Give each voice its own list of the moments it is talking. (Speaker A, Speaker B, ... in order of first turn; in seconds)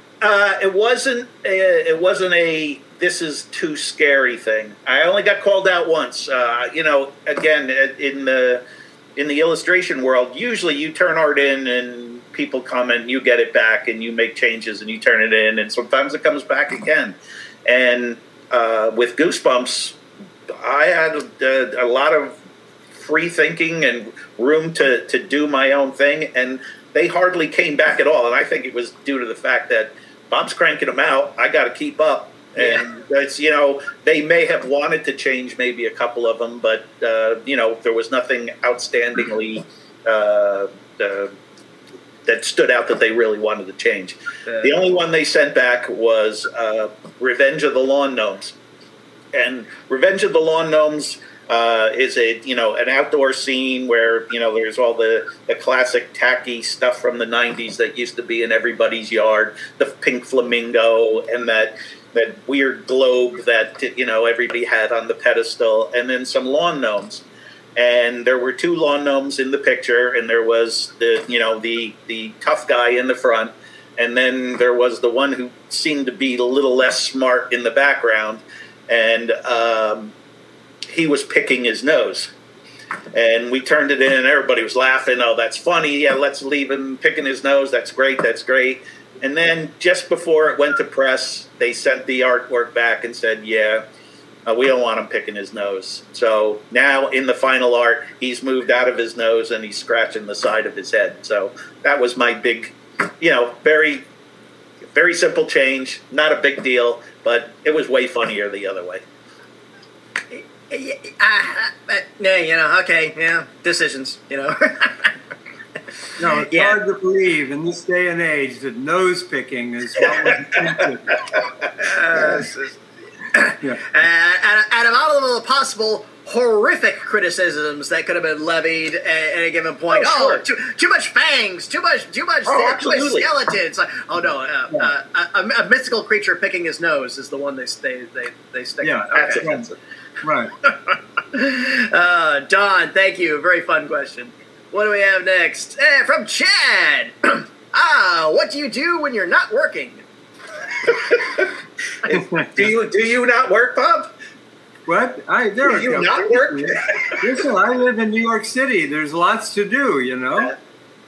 Speaker A: 0.2-8.6, 9.2-20.0, 20.6-22.4, 22.9-41.3, 42.2-48.5, 49.3-67.2, 67.8-80.1, 80.9-82.3, 83.1-93.8, 94.5-104.0, 104.9-109.0, 129.9-130.4, 132.4-133.3, 139.1-139.7, 150.8-151.5, 152.0-154.1, 155.6-157.3
Speaker B: 32.6-32.8, 44.5-44.8, 110.3-115.1, 116.4-116.8, 121.8-139.5, 140.7-150.0
Speaker C: 116.2-121.2, 122.2-122.4, 138.8-139.7, 140.2-140.5, 152.1-152.6, 154.9-160.6